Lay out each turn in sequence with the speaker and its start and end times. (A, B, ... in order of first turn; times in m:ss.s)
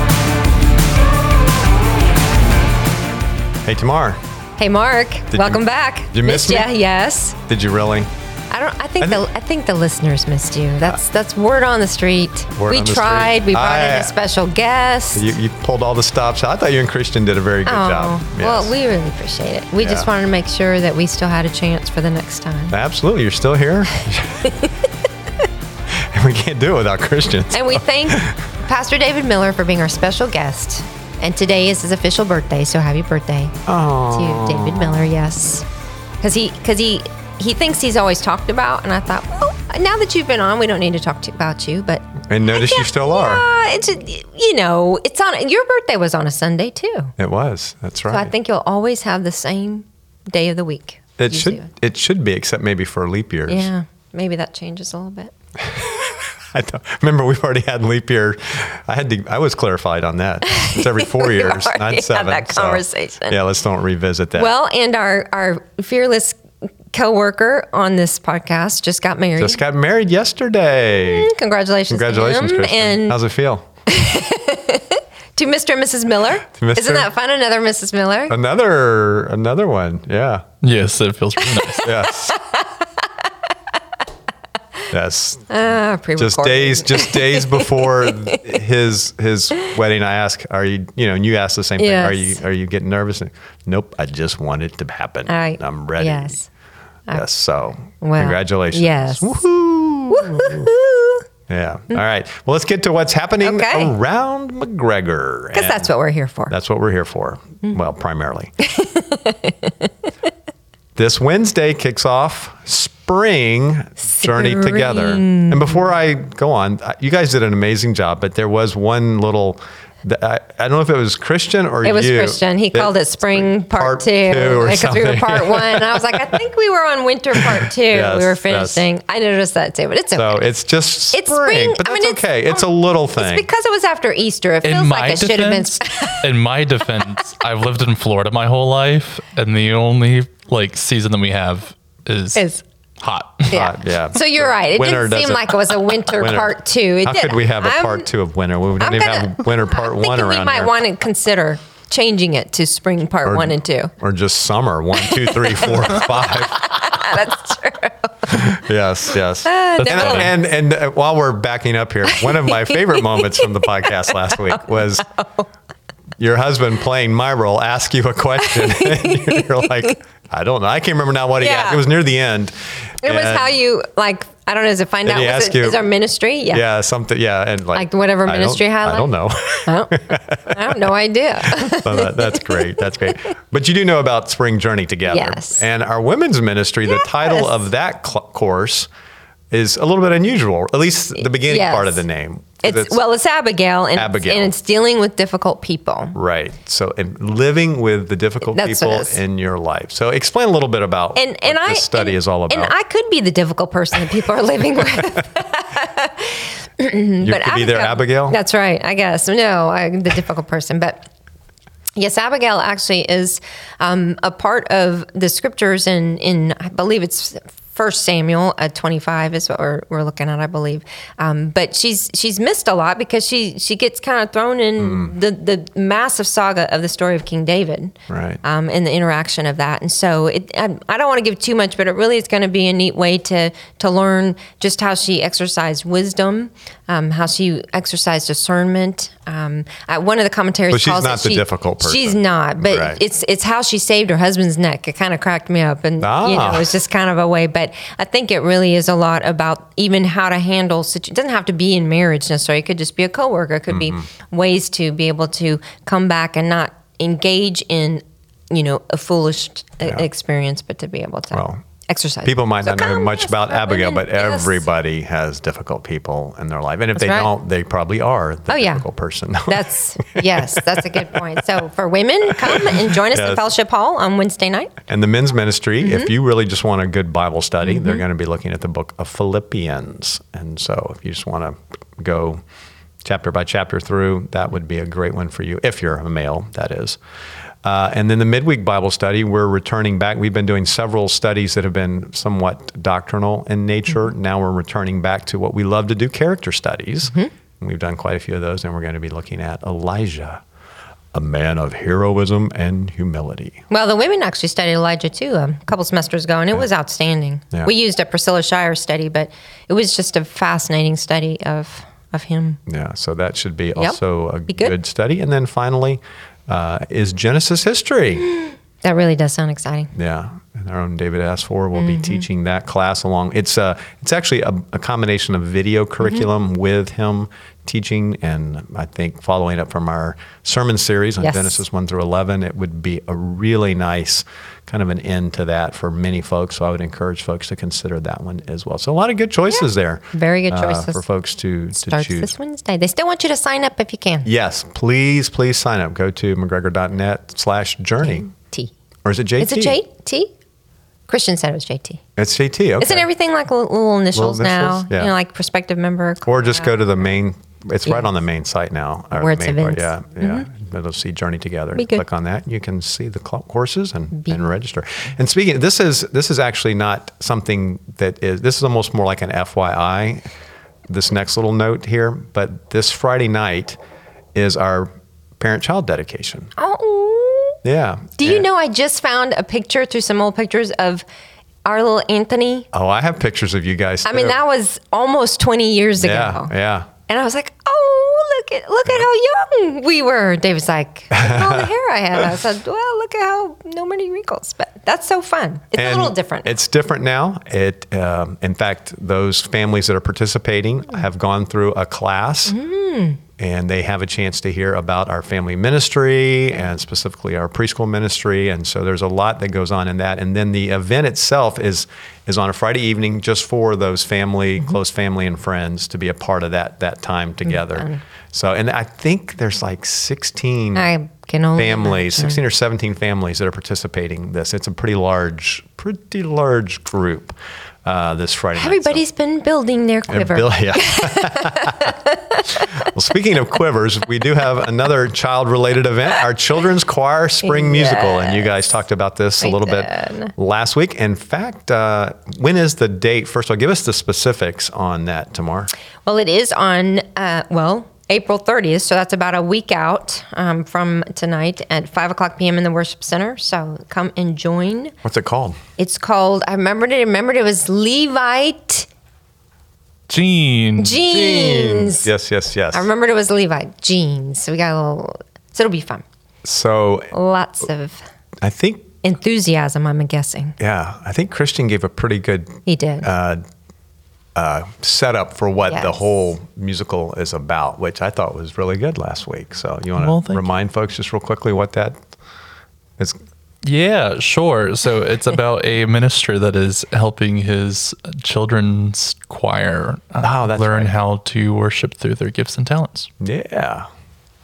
0:03.6-0:04.2 A
0:04.6-0:07.4 B
0:05.3-0:06.7 A
0:07.4-0:08.1 A
0:08.5-0:15.4 B
0:12.5-0:14.2 A
0:15.2-0:18.8 A
0:17.7-0:22.8 B
0:19.8-0:20.1 A
0:22.7-0:24.5 A
0:25.9-0:28.5 A
0:27.5-0:33.6 B
0:33.7-0:35.1 A
0:34.1-0:35.7 B
0:36.2-0:47.1 B
0:42.3-0:43.5 A
0:47.2-0:48.3 A
0:48.1-0:51.7 B
0:51.2-0:53.7 A
0:53.5-0:55.3 B
0:55.7-1:04.5 A
1:00.5-1:03.4 B
1:04.4-1:06.4 B
1:06.9-1:09.6 B
1:09.4-1:11.3 A
1:11.0-1:13.2 B
1:11.9-1:13.7 A
1:13.9-1:18.3 B
1:16.5-1:17.1 A
1:18.3-1:20.4 A
1:20.6-1:22.0 C
1:21.7-1:22.7 B
1:21.8-1:22.4 A
1:24.9-1:25.5 A
1:25.5-1:28.4 B
1:26.2-1:36.4 A
1:31.8-1:32.4 B
1:35.3-1:36.5 B
1:37.1-1:40.7 A
1:38.0-1:39.4 B
1:40.1-1:41.2 B
1:41.5-1:45.9 A
1:43.4-1:43.9 B
1:45.5-1:46.5 B
1:46.5-1:48.5 A
1:48.6-1:49.9 B
1:51.0-2:06.2 A
1:54.2-1:55.8 B
2:01.8-2:10.4 B
2:07.3-2:08.8 A
2:10.1-2:13.5 A
2:11.1-2:12.6 B
2:13.2-2:16.3 B
2:14.6-2:22.5 C
2:22.4-2:22.6 B
2:23.0-2:23.6 C
2:23.5-2:30.8 A
2:23.5-2:28.1 B
2:28.8-2:33.9 B
2:33.2-2:37.3 A
2:35.0-2:38.5 B
2:38.3-2:45.1 A
2:39.4-2:40.4 B
2:42.1-2:45.5 B
2:46.2-2:53.6 A
2:48.4-2:50.0 B
2:51.4-2:51.9 B
2:53.0-2:56.6 B
2:55.0-2:55.9 A
2:56.5-3:00.8 A
2:57.8-2:59.1 B
2:59.7-3:03.3 B
3:01.4-3:08.9 A
3:05.1-3:05.6 B
3:06.9-3:07.6 B
3:09.5-3:13.0 A
3:11.2-3:12.0 B
3:12.6-3:16.2 B
3:14.0-3:14.5 A
3:16.2-3:22.7 A
3:18.5-3:19.2 B
3:21.2-3:31.0 B
3:27.2-3:28.4 A
3:32.0-4:24.7 B
3:44.8-3:45.1 A
3:48.1-3:48.4 A
4:00.7-4:03.0 A
4:06.0-4:06.8 A
4:13.7-4:14.0 A
4:19.8-4:20.1 A
4:21.3-4:21.6 A
4:22.2-4:31.2 A
4:27.0-4:27.3 B
4:28.5-4:28.8 B
4:29.5-4:34.8 B
4:32.5-4:33.5 A
4:34.9-4:42.4 A
4:35.8-4:36.1 B
4:37.6-4:38.0 B
4:43.0-4:47.0 A
4:47.6-5:00.4 A
5:01.1-5:03.6 A
5:03.7-5:12.6 B
5:12.7-5:18.3 A
5:13.8-5:14.8 B
5:18.4-5:19.9 B
5:20.0-5:42.3 A
5:21.9-5:22.2 B
5:31.2-5:31.6 B
5:39.5-5:41.0 B
5:41.8-5:44.3 B
5:44.2-5:48.3 A
5:48.0-5:48.7 B
5:49.0-5:49.8 A
5:49.4-5:50.3 B
5:51.1-5:52.0 B
5:52.2-5:53.1 A
5:52.8-5:56.9 B
5:54.2-5:55.1 A
5:56.2-6:10.3 A
5:59.1-6:00.5 B
6:01.8-6:02.0 B
6:04.2-6:04.4 B
6:10.9-6:13.8 A
6:14.4-6:16.5 A
6:16.6-6:17.6 B
6:17.6-6:18.5 A
6:18.2-6:21.1 B
6:21.6-6:22.7 B
6:22.7-6:24.4 A
6:24.0-6:26.5 B
6:26.0-6:26.9 A
6:27.1-6:36.5 B
6:31.1-6:32.3 A
6:35.7-6:42.6 A
6:42.5-6:43.2 B
6:43.4-7:00.9 A
6:57.5-6:58.0 B
7:00.8-7:02.4 B
7:01.6-7:09.0 A
7:08.6-7:12.7 B
7:10.1-7:11.9 A
7:12.6-7:25.7 A
7:17.4-7:18.6 B
7:19.4-7:20.3 B
7:26.0-7:35.0 B
7:35.0-7:35.6 A
7:35.8-7:38.9 B
7:40.1-7:41.0 C
7:40.8-7:42.1 B
7:41.0-7:42.9 A
7:42.7-7:46.0 B
7:46.4-7:47.1 A
7:47.1-7:48.1 B
7:48.4-7:48.9 A
7:49.0-7:50.6 B
7:50.6-7:53.4 A
7:52.7-7:53.1 B
7:54.4-8:02.0 A
7:55.7-7:56.3 B
8:00.0-8:00.5 C
8:03.6-8:13.1 C
8:10.2-8:10.9 A
8:13.2-8:13.9 A